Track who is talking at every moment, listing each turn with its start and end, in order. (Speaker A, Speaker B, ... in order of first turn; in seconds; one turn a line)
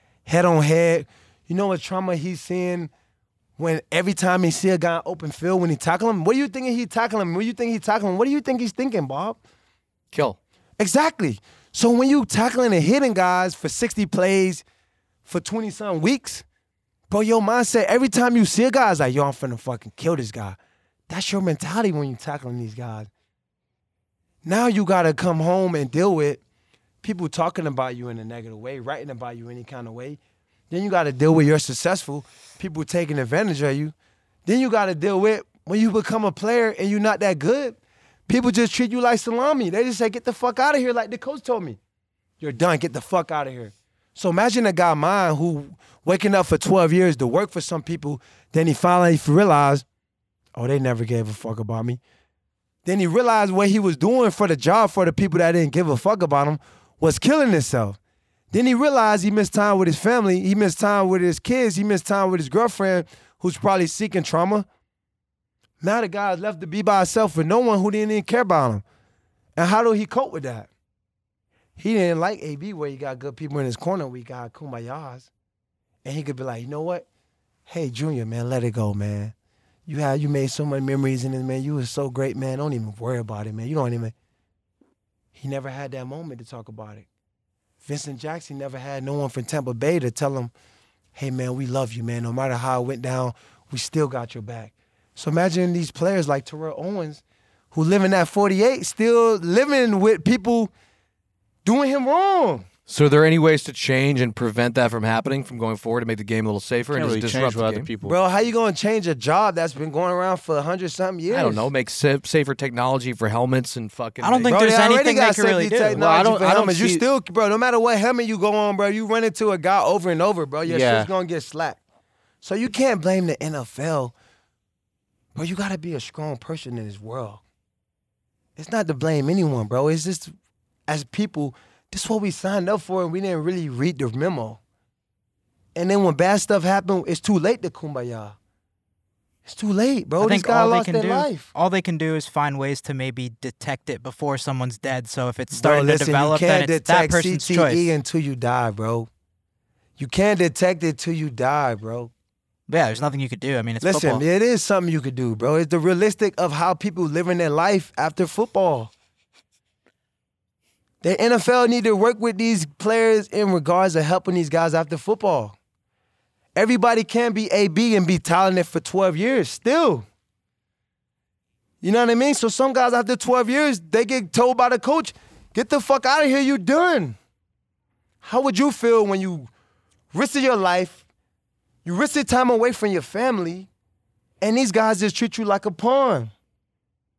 Speaker A: 0.3-2.9
Speaker A: 3.6-9.4
Speaker B: 10.1-10.4
Speaker A: 10.8-14.6
Speaker A: 15.2-16.4
Speaker A: 17.1-20.6
Speaker A: 21.1-23.1
Speaker A: 24.4-26.4
Speaker A: 27.0-33.9
Speaker A: 34.5-37.8
Speaker A: 38.3-41.8
Speaker A: 42.4-49.9
Speaker A: 50.5-52.0
Speaker A: 52.9-58.0
Speaker A: 58.5-64.7
Speaker A: 65.8-68.8
Speaker A: 69.6-70.7
Speaker A: 71.8-75.3
Speaker A: 76.0-77.1
Speaker A: 77.7-79.3
Speaker A: 79.9-84.1
Speaker A: 85.3-87.1
Speaker A: 87.8-90.5
Speaker A: 91.2-100.7
Speaker A: 101.7-102.7
Speaker B: 102.9-107.9
Speaker C: 106.9-108.2
Speaker A: 108.0-111.7
Speaker B: 111.3-114.5
Speaker D: 114.2-116.0
Speaker A: 114.5-121.8
Speaker C: 115.9-117.0
Speaker C: 120.7-121.1
Speaker A: 122.4-124.1
Speaker A: 125.3-127.4
Speaker A: 128.6-130.3
Speaker A: 130.9-134.6
Speaker A: 135.8-138.4
Speaker A: 139.4-141.5
Speaker D: 140.2-147.9
Speaker A: 145.5-149.1
Speaker A: 150.0-152.1
Speaker D: 152.7-154.2
Speaker A: 153.8-158.9
Speaker A: 161.0-165.6
Speaker A: 166.6-170.1
Speaker A: 171.8-177.2
Speaker A: 178.2-179.5
Speaker A: 180.1-181.0
Speaker A: 181.8-183.7
Speaker A: 184.4-186.3